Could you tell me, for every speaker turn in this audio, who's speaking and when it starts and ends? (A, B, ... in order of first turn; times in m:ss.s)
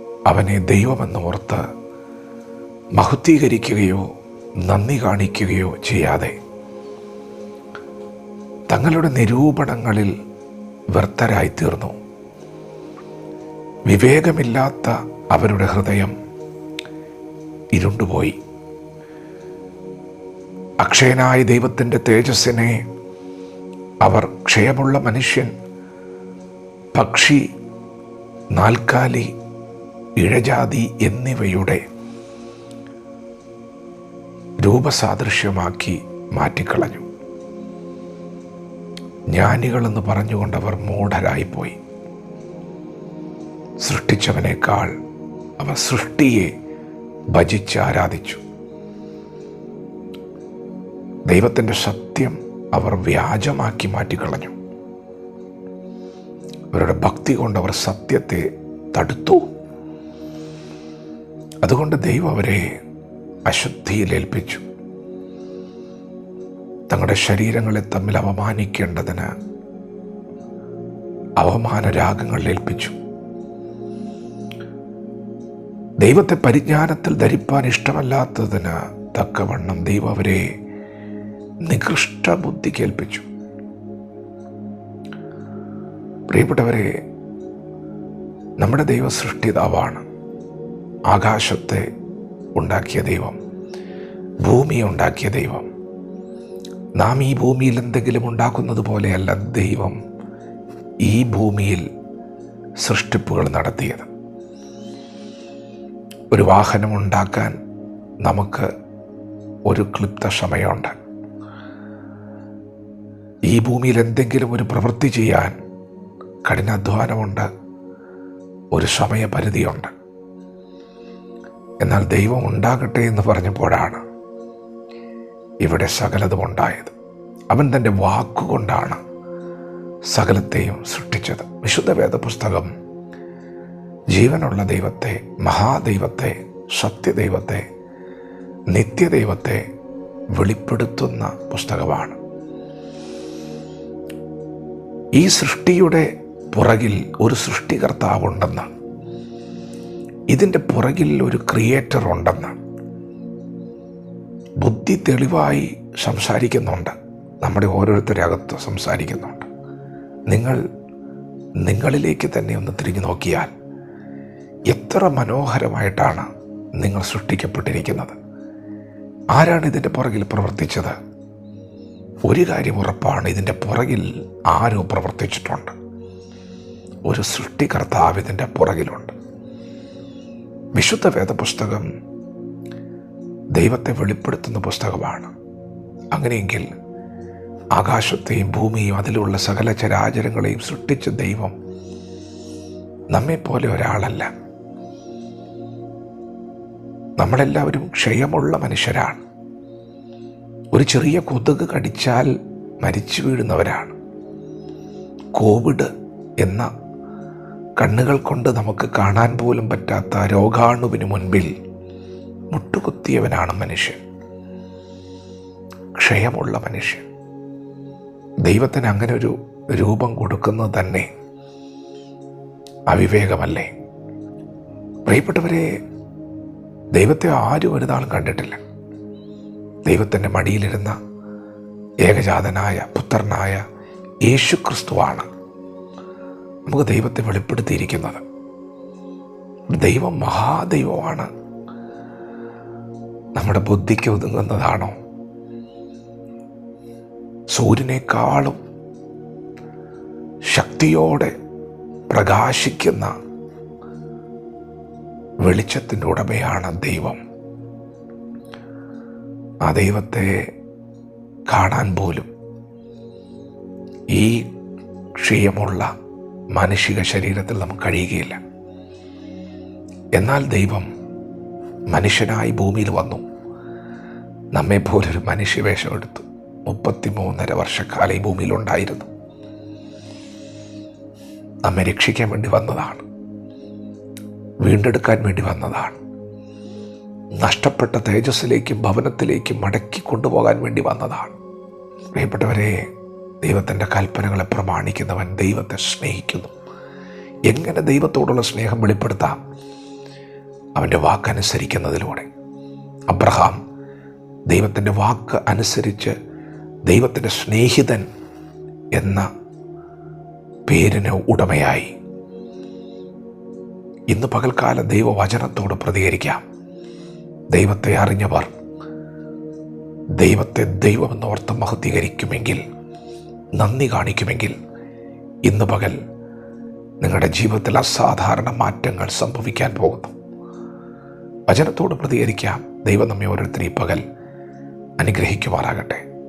0:00.3-0:01.6 A
0:03.0-0:04.1 A
0:04.6-0:06.3 A
0:08.7-0:10.1 A
0:10.9-0:11.9 A
0:13.9-0:16.1 A
0:17.7-0:18.4 A
0:20.8-0:22.8 A
0:24.0-0:25.5 A
0:27.0-0:27.4 A
0:28.5-0:29.3 A
0:30.2-0:31.8 A
0:34.6-0:37.0 A
0:39.3-0:41.8 A
0:43.8-0:44.9 A
0:45.6-0:46.5 A
0:47.3-0:48.4 A
0:51.3-0:54.5 A
0:56.7-0:59.4 A
1:01.6-1:02.6 A
1:03.5-1:04.6 A
1:06.9-1:09.3 A
1:11.4-1:13.0 A
1:16.0-1:20.4 A
1:21.6-1:23.2 A
1:26.3-1:27.0 A
1:28.6-1:30.0 A
1:31.1-1:31.8 A
1:32.6-1:33.4 A
1:34.4-1:35.7 A
1:37.0-1:40.0 A
1:41.0-1:41.8 A
1:42.8-1:44.1 A
1:46.3-1:47.5 A
1:48.2-1:48.7 A
1:49.7-1:50.9 A
1:53.5-1:55.6 A
1:56.4-1:57.5 A
1:58.7-1:59.9 A
2:01.8-2:04.0 A
2:05.6-2:06.9 A
2:07.5-2:09.0 A
2:10.1-2:12.7 A
2:14.1-2:17.6 A
2:18.7-2:19.6 A
2:20.4-2:22.2 A
2:25.2-2:28.7 A
2:30.3-2:32.6 A
2:34.6-2:39.5 A
2:40.3-2:40.6 A
2:41.6-2:43.5 A
2:44.7-2:48.2 A
2:49.3-2:51.0 A
2:52.3-2:55.7 A
2:57.1-2:59.1 A
3:00.8-3:01.8 A
3:03.5-3:05.3 A
3:06.1-3:06.7 A
3:07.7-3:11.5 A
3:13.1-3:14.3 A
3:17.2-3:19.2 A
3:20.7-3:22.3 A
3:22.8-3:24.0 A
3:25.4-3:25.9 A
3:26.4-3:26.7 A
3:27.8-3:31.5 A
3:32.5-3:34.0 A
3:36.0-3:37.0 A
3:38.4-3:41.1 A
3:42.9-3:43.7 A
3:45.0-3:45.7 A
3:46.9-3:48.6 A
3:49.8-3:51.0 A
3:52.0-3:53.6 A
3:54.3-3:55.3 A
3:56.6-3:58.2 A
3:59.8-4:01.3 A
4:03.3-4:04.9 A
4:07.5-4:08.6 A
4:10.5-4:11.3 A
4:12.1-4:13.1 A
4:15.4-4:17.2 A
4:19.6-4:20.4 A
4:21.5-4:22.3 A
4:24.1-4:24.4 A
4:25.2-4:25.9 A
4:26.5-4:28.4 A
4:30.2-4:30.9 A
4:31.9-4:33.2 A
4:34.5-4:39.1 A
4:41.6-4:43.0 A
4:44.6-4:46.0 A
4:47.4-4:51.4 A
4:52.1-4:52.8 A
4:53.4-4:56.5 A
4:57.5-4:59.4 A
5:00.8-5:02.3 A
5:03.1-5:03.6 A
5:04.5-5:06.1 A
5:06.9-5:08.0 A
5:08.9-5:09.3 A
5:10.7-5:11.9 A
5:14.1-5:16.4 A
5:17.5-5:18.5 A
5:20.2-5:22.6 A
5:23.6-5:24.6 A
5:25.4-5:26.0 A
5:27.0-5:30.1 A
5:31.5-5:34.0 A
5:35.0-5:36.0 A